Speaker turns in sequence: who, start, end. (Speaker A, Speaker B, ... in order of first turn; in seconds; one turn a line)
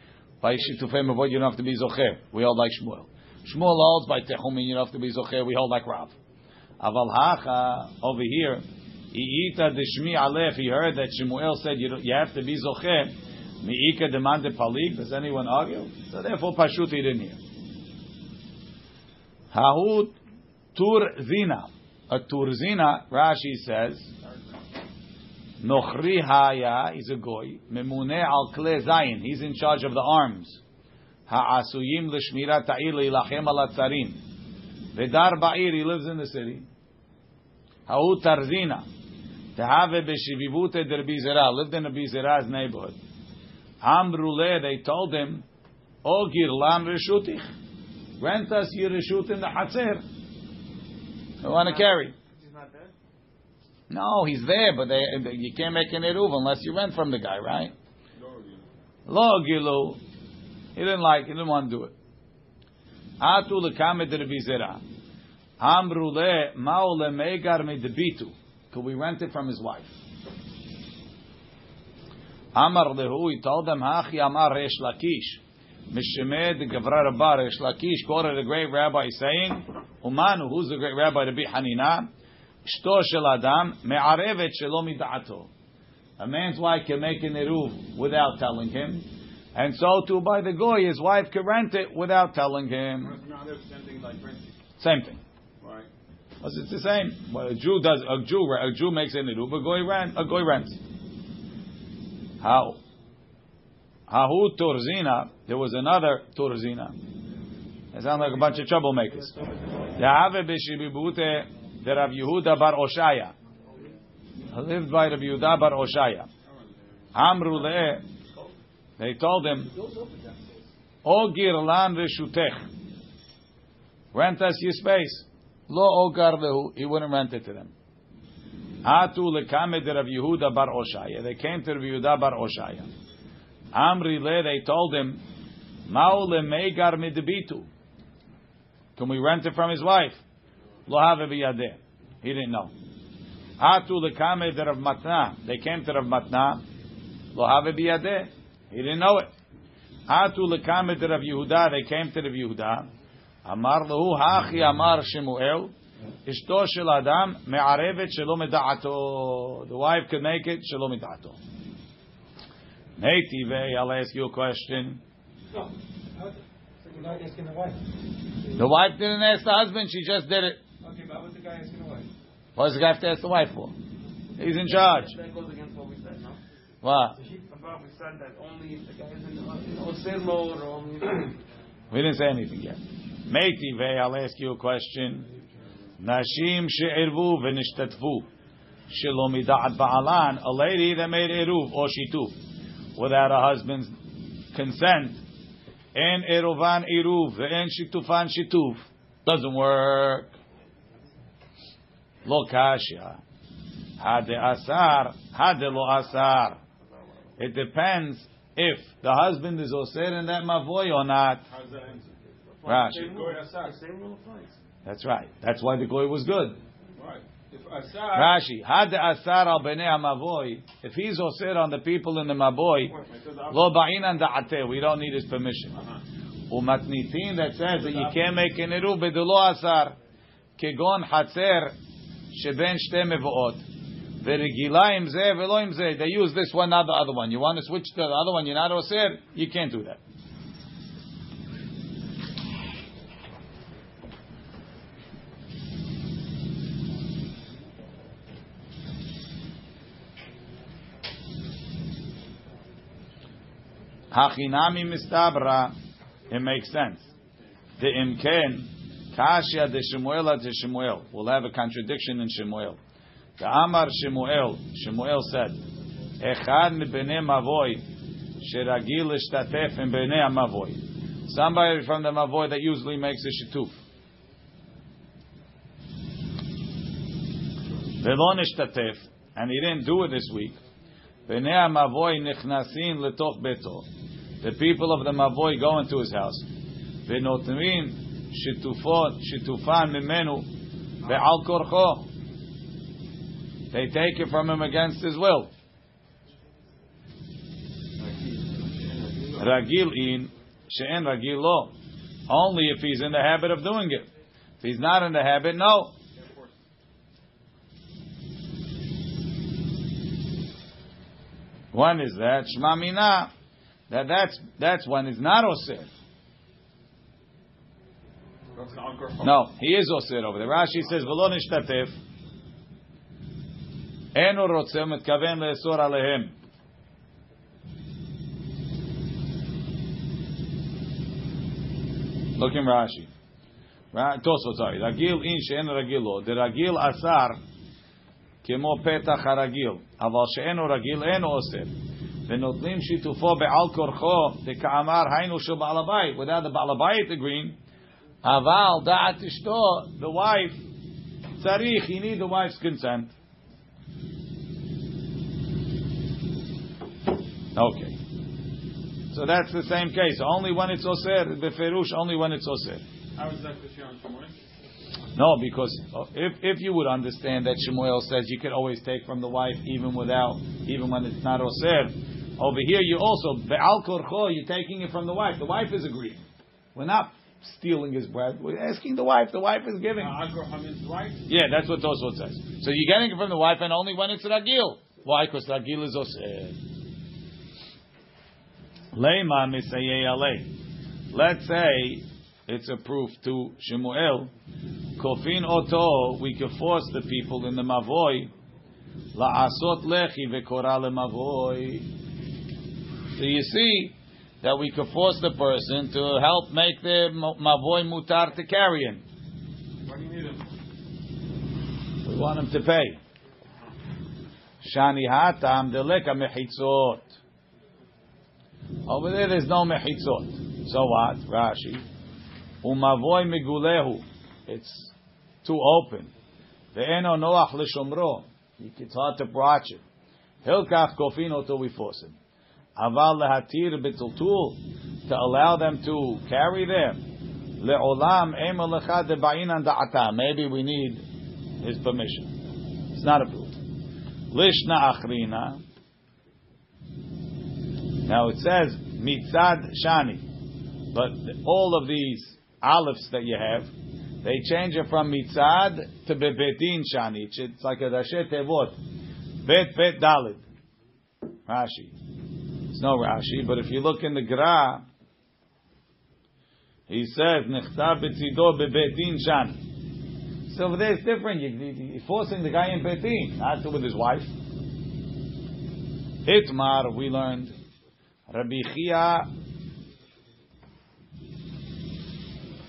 Speaker A: 0.4-6.2
Speaker A: 6.8-17.4
Speaker A: 19.5-20.1
Speaker A: 20.8-24.1
Speaker B: 24.2-24.6
Speaker A: 25.6-30.6
Speaker A: 31.3-34.2
Speaker A: 34.9-36.7
Speaker A: 37.9-38.9
Speaker A: 39.6-43.0
Speaker A: 43.8-45.5
Speaker A: 46.0-47.5
Speaker A: 48.2-50.0
Speaker A: 51.4-52.1
Speaker C: 51.5-52.9
Speaker A: 53.9-57.7
Speaker B: 58.1-58.6
Speaker A: 59.1-60.0
Speaker A: 60.8-61.9
Speaker A: 63.2-64.8
Speaker A: 65.6-70.0
Speaker A: 72.5-82.1
Speaker A: 82.6-85.5
Speaker A: 86.2-93.1
Speaker B: 93.0-94.5
Speaker A: 94.8-95.2
Speaker B: 95.6-95.9
Speaker A: 96.4-100.8
Speaker A: 102.4-102.8
Speaker A: 104.1-107.0
Speaker A: 107.9-109.3
Speaker D: 108.2-110.1
Speaker A: 110.0-113.3
Speaker A: 114.5-116.3
Speaker B: 116.5-116.9
Speaker A: 117.1-118.0
Speaker A: 119.0-119.7
Speaker D: 119.7-120.5
Speaker A: 121.0-122.7
Speaker A: 124.1-127.7
Speaker A: 128.8-132.9
Speaker A: 133.7-135.2
Speaker A: 135.9-137.7
Speaker A: 139.0-140.2
Speaker A: 140.9-142.7
Speaker A: 143.6-146.6
Speaker A: 147.3-149.3
Speaker A: 150.1-152.9
Speaker A: 153.4-155.7
Speaker A: 156.3-161.4
Speaker A: 163.0-165.0
Speaker D: 166.1-167.8
Speaker A: 168.6-170.6
Speaker D: 170.8-172.1
Speaker A: 172.6-173.7
Speaker A: 174.4-175.2
Speaker C: 174.7-176.4
Speaker A: 176.8-177.2
Speaker D: 177.2-177.5
Speaker C: 177.4-181.3
Speaker A: 181.9-185.3
Speaker A: 186.0-188.3
Speaker A: 188.9-192.3
Speaker A: 193.0-193.9
Speaker A: 194.5-195.2
Speaker A: 195.9-200.3
Speaker A: 202.2-203.2
Speaker A: 204.0-206.6
Speaker A: 207.4-211.4
Speaker B: 211.5-212.2
Speaker C: 212.6-214.1
Speaker A: 212.6-213.1
Speaker D: 212.9-214.5
Speaker B: 212.9-213.8
Speaker A: 214.8-216.6
Speaker B: 217.0-218.4
Speaker A: 218.1-222.9
Speaker B: 223.1-223.8
Speaker A: 223.5-225.8
Speaker B: 225.7-226.0
Speaker A: 226.5-230.0
Speaker B: 227.8-228.2
Speaker A: 230.6-231.8
Speaker A: 232.3-233.6
Speaker A: 234.2-240.0
Speaker A: 254.1-255.7
Speaker A: 256.3-257.1
Speaker A: 257.8-262.8
Speaker A: 263.4-265.6
Speaker A: 266.2-267.8
Speaker A: 268.4-273.8
Speaker A: 278.0-280.6
Speaker A: 281.3-283.9
Speaker A: 284.4-286.5
Speaker A: 287.1-290.5
Speaker A: 291.0-292.1
Speaker A: 293.7-295.5
Speaker B: 298.0-299.6
Speaker A: 299.4-301.7
Speaker A: 302.3-304.1
Speaker A: 304.6-305.9
Speaker B: 306.1-306.6
Speaker A: 311.7-313.3
Speaker A: 313.9-315.9
Speaker B: 318.6-319.4
Speaker A: 319.2-322.0
Speaker A: 324.1-326.4
Speaker A: 332.4-333.1
Speaker A: 333.9-337.4
Speaker A: 338.4-341.7
Speaker A: 342.3-347.6
Speaker A: 348.2-350.6
Speaker A: 351.4-353.1
Speaker A: 357.5-358.0
Speaker A: 359.1-362.8
Speaker B: 363.1-364.3
Speaker A: 365.1-380.1
Speaker B: 380.0-381.3
Speaker A: 381.3-386.6
Speaker A: 388.9-390.5
Speaker A: 391.1-394.3
Speaker A: 395.0-398.3
Speaker A: 399.1-401.9
Speaker A: 403.1-409.0
Speaker B: 409.9-410.5
Speaker A: 412.1-413.0
Speaker A: 414.6-417.2
Speaker A: 418.9-421.8
Speaker A: 422.6-426.1
Speaker A: 426.7-429.8
Speaker A: 430.4-432.2
Speaker A: 432.8-437.0
Speaker A: 437.6-441.1
Speaker A: 441.6-442.3
Speaker A: 442.9-443.6
Speaker A: 444.3-445.6
Speaker A: 448.1-450.2
Speaker A: 450.9-453.7
Speaker A: 454.2-458.8
Speaker A: 459.4-460.4
Speaker A: 461.5-461.9
Speaker A: 462.7-464.9
Speaker A: 466.9-469.6
Speaker A: 470.5-474.3
Speaker A: 476.3-477.5
Speaker A: 478.3-479.3